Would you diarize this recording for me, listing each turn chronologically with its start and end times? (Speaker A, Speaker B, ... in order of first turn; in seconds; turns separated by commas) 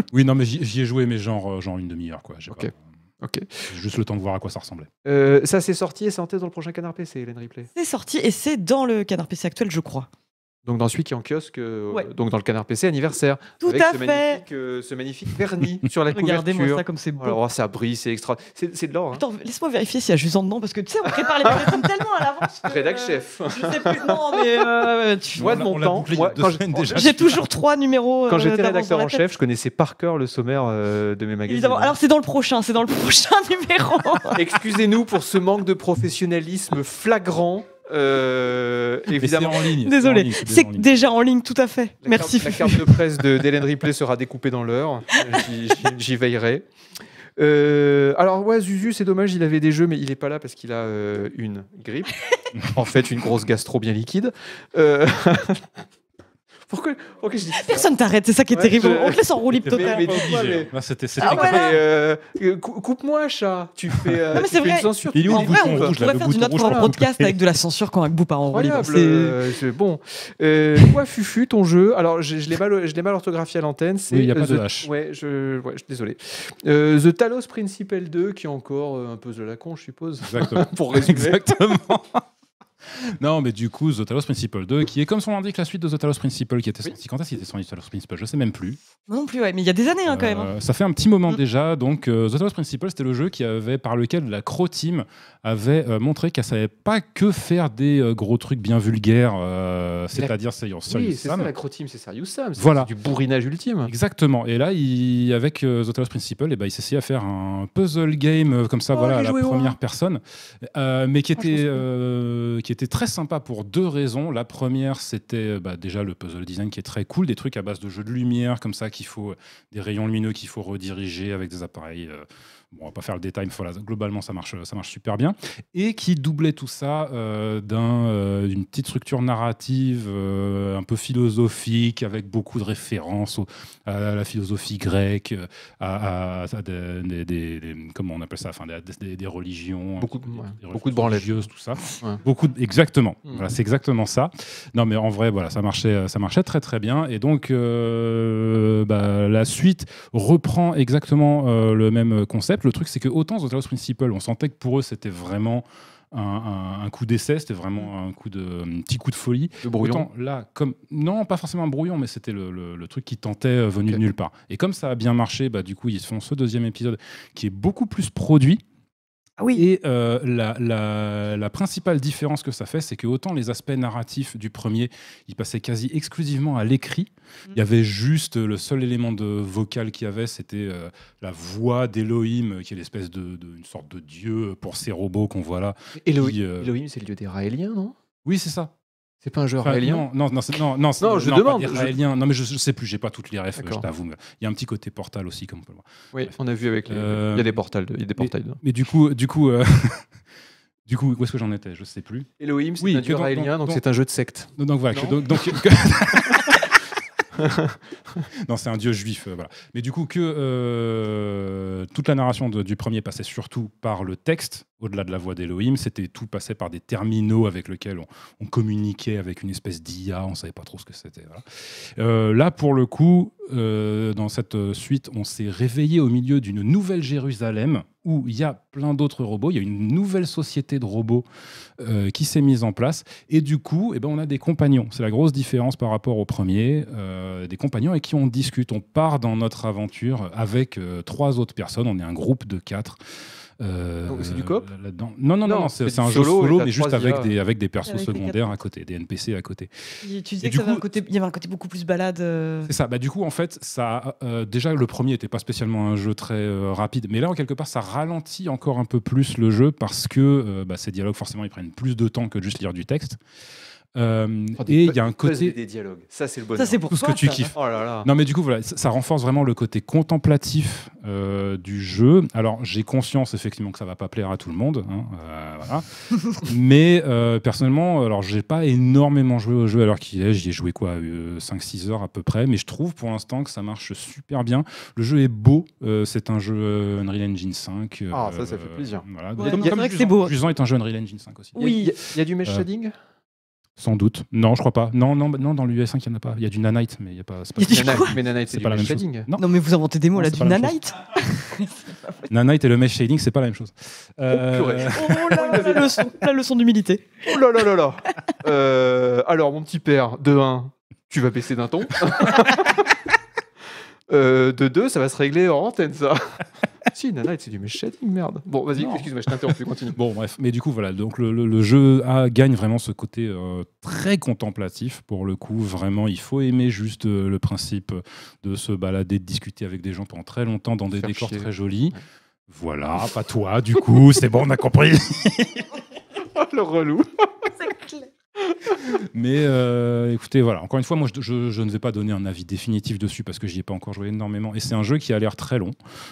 Speaker A: 0.1-2.7, Speaker B: 2.5-3.7, Speaker A: 3.7-4.9, Speaker B: 5.0-7.7, Speaker C: 7.8-10.1, Speaker B: 10.7-19.2, Speaker C: 13.6-14.4, Speaker C: 16.1-17.4, Speaker C: 19.1-25.6, Speaker B: 21.2-21.8, Speaker B: 22.6-24.7, Speaker A: 25.4-27.5, Speaker B: 25.4-27.0, Speaker C: 26.9-29.2, Speaker B: 28.3-32.0, Speaker C: 31.5-34.6, Speaker B: 34.4-39.7, Speaker A: 39.1-40.9, Speaker C: 39.8-43.0, Speaker B: 42.0-46.7, Speaker B: 47.4-55.8, Speaker B: 56.7-57.9, Speaker C: 57.5-60.4, Speaker B: 58.5-66.9, Speaker A: 59.5-61.8, Speaker C: 61.2-61.8, Speaker C: 64.3-69.4, Speaker A: 65.1-67.3, Speaker B: 68.5-81.4, Speaker A: 74.1-74.9, Speaker A: 80.2-82.2, Speaker A: 82.8-88.8, Speaker C: 89.1-90.5, Speaker A: 90.1-101.5, Speaker B: 100.9-103.9, Speaker A: 102.6-102.9, Speaker A: 103.9-168.6, Speaker B: 108.9-109.8, Speaker B: 111.4-111.8, Speaker B: 140.0-141.5, Speaker B: 159.6-160.1, Speaker C: 169.4-169.7, Speaker A: 169.6-186.7, Speaker B: 186.0-188.0, Speaker A: 188.2-188.7, Speaker B: 189.2-190.1, Speaker A: 189.6-196.3, Speaker B: 191.0-191.9, Speaker B: 193.6-193.9, Speaker B: 196.1-198.6, Speaker A: 196.9-197.6, Speaker A: 198.2-200.1, Speaker A: 200.9-202.3, Speaker B: 202.4-205.6, Speaker A: 202.8-203.8, Speaker A: 204.6-206.8, Speaker B: 206.3-206.6, Speaker B: 207.3-208.3, Speaker A: 208.3-231.2, Speaker A: 231.8-243.0, Speaker A: 243.6-249.7, Speaker B: 244.1-244.7, Speaker B: 245.5-247.3, Speaker C: 247.9-248.4, Speaker C: 250.0-252.7, Speaker A: 250.4-250.9, Speaker A: 252.7-263.2, Speaker A: 263.9-265.6, Speaker B: 264.6-266.8, Speaker C: 266.6-267.5, Speaker A: 266.9-291.6, Speaker B: 267.6-268.1, Speaker B: 288.1-289.9, Speaker C: 289.4-290.4, Speaker C: 291.6-291.9, Speaker B: 291.6-292.9, Speaker A: 293.8-299.4, Speaker C: 297.6-298.2, Speaker B: 297.7-299.3, Speaker C: 299.4-302.1, Speaker A: 300.1-300.8, Speaker A: 302.3-305.4, Speaker B: 304.3-306.1, Speaker C: 304.8-307.3, Speaker B: 307.2-313.0, Speaker B: 314.1-320.0, Speaker A: 318.8-332.0, Speaker B: 330.9-331.5, Speaker A: 332.5-335.8, Speaker B: 336.4-337.5, Speaker C: 337.6-338.1, Speaker B: 338.5-338.8, Speaker A: 338.8-345.8